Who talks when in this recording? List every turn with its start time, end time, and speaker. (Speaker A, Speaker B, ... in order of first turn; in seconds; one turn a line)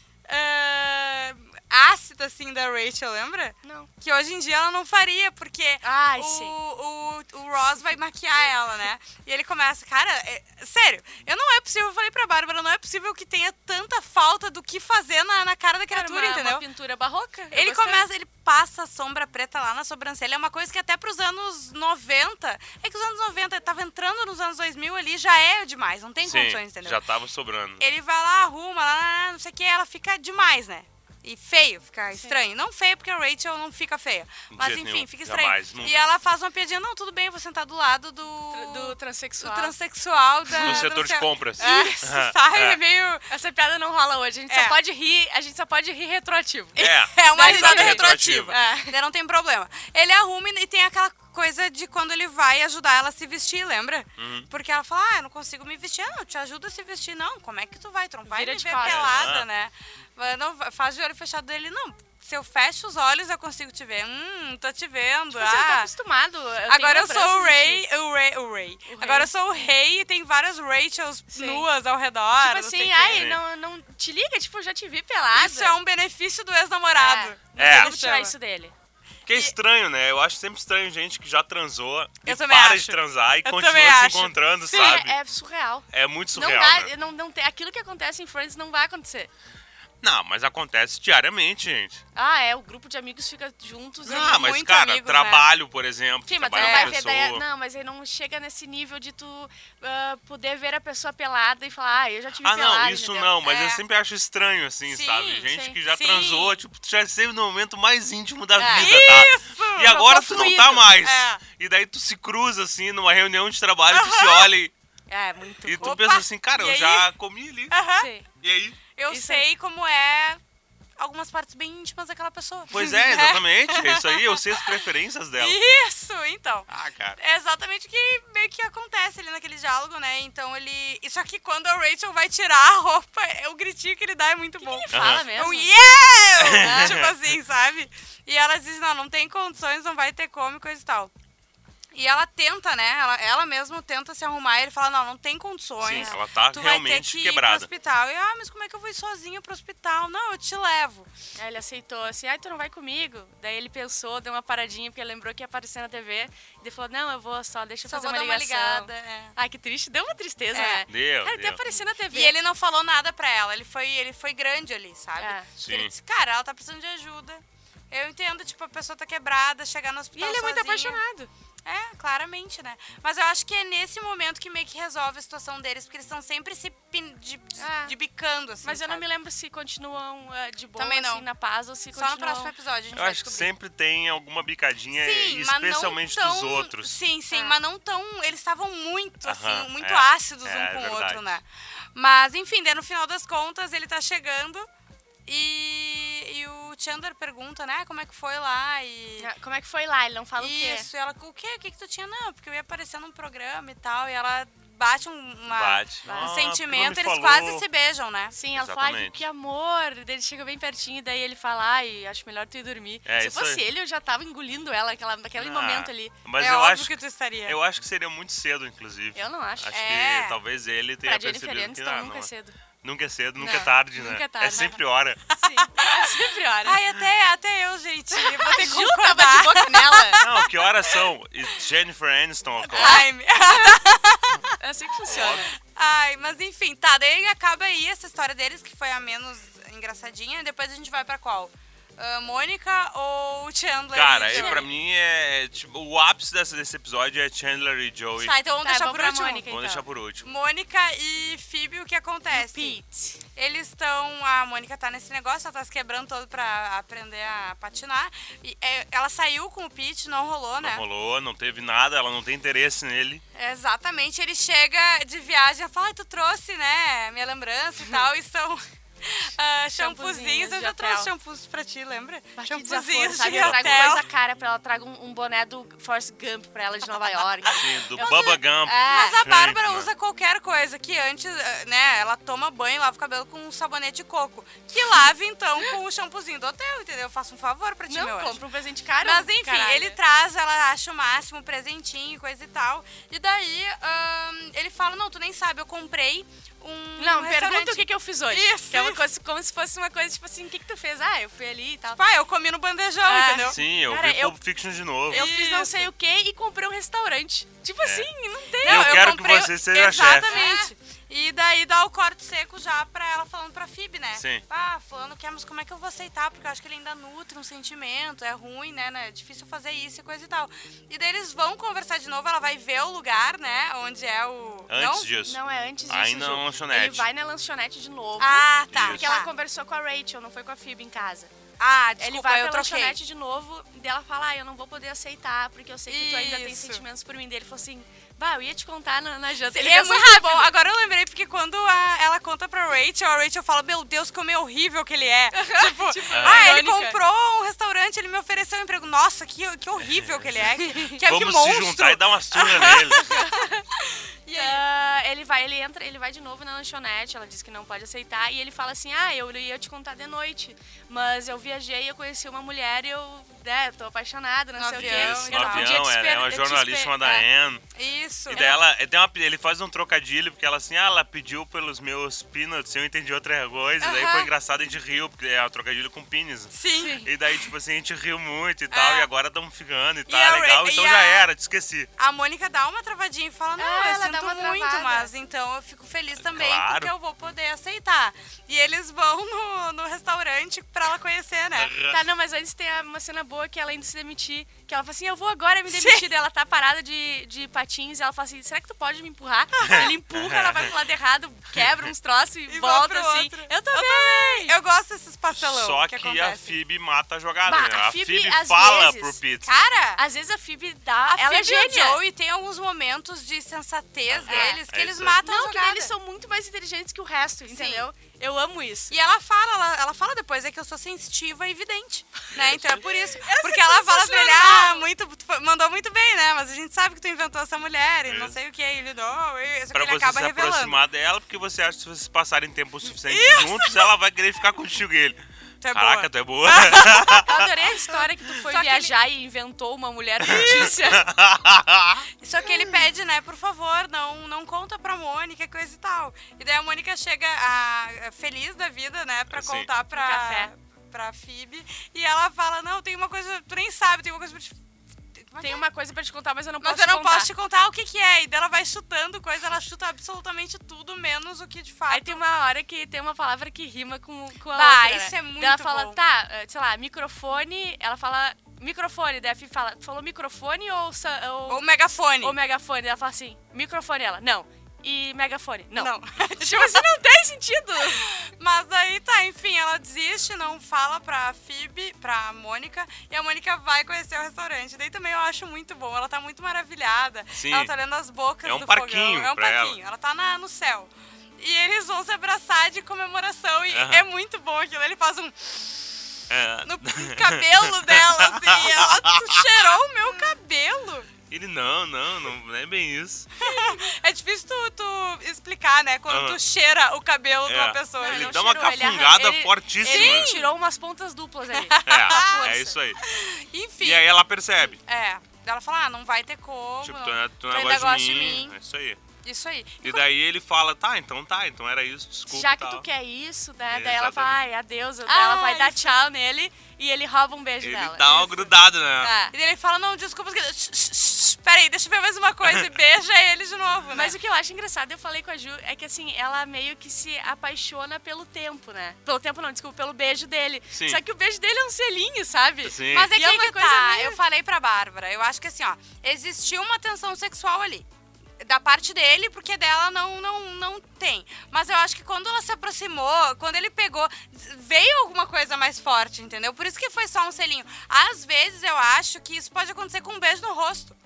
Speaker A: 0.3-16.6
Speaker B: 3.6-3.9
Speaker B: 5.8-6.5
Speaker B: 15.9-18.1
Speaker A: 17.5-27.0
Speaker C: 26.2-27.8
Speaker A: 27.8-43.3
Speaker C: 34.5-36.1
Speaker B: 38.5-39.7
Speaker B: 40.5-40.9
Speaker C: 40.5-42.8
Speaker B: 41.6-41.9
Speaker B: 43.3-48.9
Speaker A: 44.5-44.8
Speaker A: 46.8-65.9
Speaker C: 46.8-48.6
Speaker C: 54.2-54.5
Speaker B: 58.3-59.3
Speaker C: 58.8-59.5
Speaker B: 65.3-67.8
Speaker A: 66.7-73.2
Speaker B: 68.9-69.3
Speaker B: 71.3-71.7
Speaker B: 72.4-75.8
Speaker C: 73.1-73.4
Speaker A: 75.3-78.3
Speaker B: 77.0-78.7
Speaker C: 77.6-77.9
Speaker C: 79.2-85.2
Speaker A: 79.3-79.5
Speaker A: 82.2-85.0
Speaker B: 84.7-89.3
Speaker C: 85.9-86.9
Speaker C: 90.0-92.0
Speaker B: 92.1-94.4
Speaker A: 94.0-95.5
Speaker C: 94.0-97.4
Speaker B: 96.3-103.3
Speaker A: 96.5-97.0
Speaker C: 102.4-114.7
Speaker A: 103.4-103.8
Speaker A: 104.9-106.6
Speaker B: 105.5-105.8
Speaker B: 108.6-109.0
Speaker A: 108.7-111.4
Speaker B: 109.9-110.9
Speaker A: 113.9-114.5
Speaker B: 115.1-116.0
Speaker C: 115.6-117.8
Speaker A: 115.8-117.1
Speaker A: 117.7-118.1
Speaker B: 118.0-118.3
Speaker C: 118.4-118.8
Speaker A: 119.0-120.4
Speaker B: 119.1-119.4
Speaker A: 121.0-141.1
Speaker C: 122.7-125.6
Speaker C: 126.7-127.2
Speaker B: 134.6-135.7
Speaker C: 134.9-135.2
Speaker C: 136.4-137.2
Speaker B: 136.6-137.0
Speaker A: 141.9-151.1
Speaker C: 145.8-147.7
Speaker B: 145.9-146.2
Speaker B: 151.4-162.3
Speaker A: 157.9-159.3
Speaker A: 160.5-160.8
Speaker C: 160.9-161.6
Speaker A: 161.7-171.0
Speaker B: 165.2-165.5
Speaker C: 165.6-165.9
Speaker B: 170.1-171.3
Speaker A: 171.6-179.0
Speaker B: 177.6-177.9
Speaker B: 178.6-182.5
Speaker A: 180.8-181.2
Speaker A: 181.9-183.5
Speaker C: 182.9-186.9
Speaker A: 184.9-194.7
Speaker B: 187.3-187.6
Speaker C: 189.2-191.2
Speaker A: 195.2-199.3
Speaker B: 199.2-200.9
Speaker A: 200.4-208.3
Speaker C: 205.5-207.6
Speaker B: 206.0-206.3
Speaker B: 208.3-216.1
Speaker C: 208.5-209.2
Speaker C: 213.1-213.6
Speaker C: 215.4-216.9
Speaker A: 216.4-217.6
Speaker C: 217.5-222.3
Speaker B: 219.1-219.7
Speaker A: 219.7-220.4
Speaker B: 221.0-222.6
Speaker C: 222.8-225.2
Speaker A: 223.4-223.7
Speaker B: 223.4-224.8
Speaker A: 225.3-231.0
Speaker B: 225.4-226.8
Speaker B: 228.1-230.2
Speaker C: 230.2-233.1
Speaker A: 232.6-234.5
Speaker B: 232.7-233.6
Speaker B: 234.6-235.5
Speaker C: 235.1-235.5
Speaker A: 235.1-244.7
Speaker C: 243.9-248.3
Speaker B: 244.3-244.7
Speaker A: 248.2-249.5
Speaker B: 248.6-249.8
Speaker C: 249.5-250.2
Speaker A: 250.2-252.8
Speaker B: 252.3-253.2
Speaker A: 253.3-260.8
Speaker C: 260.6-263.2
Speaker A: 263.3-274.0
Speaker B: 269.8-271.1
Speaker B: 272.4-279.2
Speaker C: 273.2-273.9
Speaker A: 277.4-288.4
Speaker C: 277.5-279.9
Speaker B: 287.9-290.0
Speaker A: 289.0-299.0
Speaker B: 297.0-302.0
Speaker A: 301.9-303.6
Speaker B: 303.0-304.4
Speaker C: 303.5-305.2
Speaker A: 305.1-305.9
Speaker B: 305.1-309.3
Speaker C: 307.8-308.1
Speaker A: 308.6-325.1
Speaker C: 308.6-310.4
Speaker B: 310.3-310.7
Speaker C: 314.1-314.4
Speaker C: 324.7-327.1
Speaker B: 325.2-331.3
Speaker A: 328.2-329.3
Speaker C: 328.7-329.1
Speaker A: 331.6-333.0
Speaker B: 332.0-340.5
Speaker A: 335.9-336.8
Speaker A: 339.5-354.6
Speaker B: 345.3-347.0
Speaker C: 346.1-346.5
Speaker C: 349.9-353.1
Speaker B: 353.0-353.6
Speaker B: 354.3-367.2
Speaker A: 364.6-365.8
Speaker C: 364.7-367.6
Speaker A: 367.7-368.6
Speaker C: 368.3-381.9
Speaker B: 368.3-368.6
Speaker A: 373.8-374.3
Speaker A: 376.5-377.1
Speaker B: 376.8-377.1
Speaker A: 378.7-379.1
Speaker A: 380.1-381.3
Speaker A: 382.0-391.7
Speaker B: 383.6-385.1
Speaker C: 386.2-386.9
Speaker C: 391.6-392.0
Speaker B: 391.9-404.6
Speaker A: 395.7-396.1
Speaker C: 399.6-400.7
Speaker A: 402.5-406.6
Speaker C: 405.3-409.7
Speaker B: 407.4-409.2
Speaker A: 409.4-410.0
Speaker B: 410.0-412.0
Speaker A: 411.1-415.9
Speaker C: 414.1-415.2
Speaker B: 414.2-414.6
Speaker B: 415.2-418.9
Speaker A: 417.5-417.9
Speaker A: 418.9-430.8
Speaker C: 422.3-422.8
Speaker B: 423.1-424.9
Speaker C: 428.1-428.4
Speaker C: 429.7-435.2
Speaker A: 433.0-433.9
Speaker A: 435.6-438.9
Speaker C: 435.7-437.5
Speaker B: 436.9-441.1
Speaker C: 440.2-442.1
Speaker A: 440.3-440.7
Speaker A: 442.2-454.6
Speaker C: 449.3-449.7
Speaker B: 449.9-450.5
Speaker A: 455.2-455.6
Speaker B: 455.4-457.3
Speaker A: 456.6-462.2
Speaker B: 461.9-471.6
Speaker A: 464.5-466.0
Speaker A: 471.5-472.4
Speaker B: 472.2-478.1
Speaker A: 475.8-476.9
Speaker A: 477.9-496.0
Speaker C: 487.4-487.7
Speaker C: 488.4-489.8
Speaker C: 493.7-494.1
Speaker C: 496.3-499.6
Speaker A: 496.6-501.1
Speaker C: 501.3-503.3
Speaker A: 503.4-508.7
Speaker C: 506.1-506.4
Speaker C: 507.5-510.3
Speaker B: 508.0-512.8
Speaker A: 509.8-510.5
Speaker A: 511.5-514.1
Speaker C: 511.8-513.0
Speaker C: 513.8-514.8
Speaker A: 514.8-518.5
Speaker C: 516.8-519.0
Speaker A: 519.2-520.0
Speaker C: 519.8-522.9
Speaker B: 522.3-529.3
Speaker C: 523.7-524.4
Speaker A: 525.0-526.0
Speaker C: 527.6-529.1
Speaker A: 529.3-534.1
Speaker B: 533.9-544.2
Speaker C: 540.7-541.0
Speaker C: 542.6-543.1
Speaker A: 542.9-547.9
Speaker A: 548.4-561.0